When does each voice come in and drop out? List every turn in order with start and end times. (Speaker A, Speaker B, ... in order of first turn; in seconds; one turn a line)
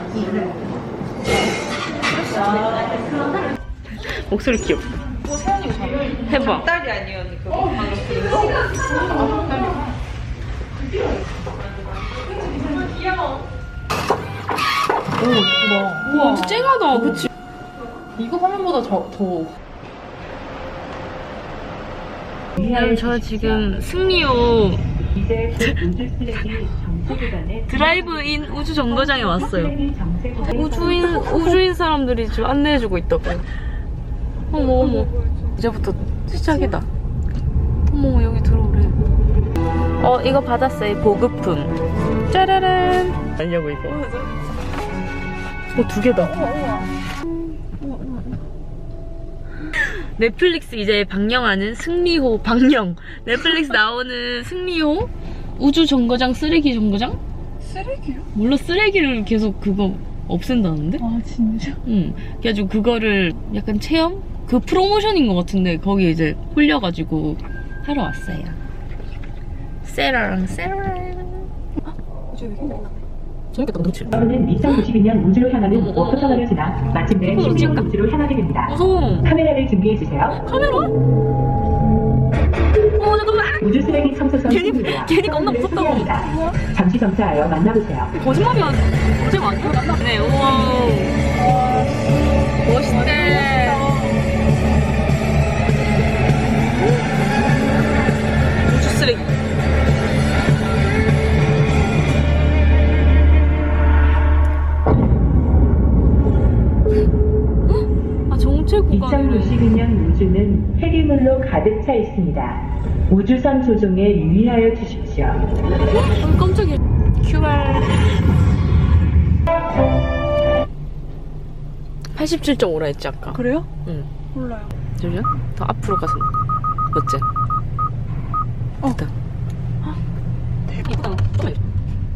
Speaker A: 0.1-0.5
Speaker B: 2.2-2.9
Speaker A: 3.9-4.9
Speaker B: 5.2-8.7
Speaker C: 5.3-6.2
Speaker A: 6.3-6.7
Speaker C: 9.1-9.8
Speaker C: 15.2-16.6
Speaker A: 16.1-17.3
Speaker C: 18.2-19.6
Speaker A: 22.6-24.9
Speaker D: 25.2-27.7
Speaker A: 25.6-25.9
Speaker A: 27.5-29.8
Speaker D: 29.4-31.0
Speaker A: 30.4-33.5
Speaker A: 34.5-36.9
Speaker A: 37.9-39.0
Speaker A: 40.0-41.8
Speaker A: 42.3-44.0
Speaker A: 45.7-46.5
Speaker A: 47.8-48.2
Speaker A: 49.8-57.2
Speaker C: 57.6-58.3
Speaker A: 58.3-61.0
Speaker C: 61.0-61.8
Speaker A: 61.9-68.6
Speaker A: 69.8-71.5
Speaker C: 72.3-72.9
Speaker A: 73.5-74.9
Speaker D: 74.1-78.7
Speaker A: 75.7-76.6
Speaker A: 77.2-77.9
Speaker A: 78.7-79.4
Speaker D: 79.3-80.4
Speaker A: 80.3-81.0
Speaker A: 83.0-86.4
Speaker D: 83.6-88.1
Speaker A: 88.1-91.2
Speaker A: 92.7-94.0
Speaker C: 92.7-94.2
Speaker A: 98.7-99.3
Speaker A: 107.7-109.8
Speaker D: 108.9-115.4
Speaker A: 115.9-118.0
Speaker A: 122.1-124.1
Speaker C: 123.3-123.7
Speaker C: 124.3-124.7
Speaker A: 125.0-126.3
Speaker A: 126.9-127.2
Speaker A: 130.7-131.6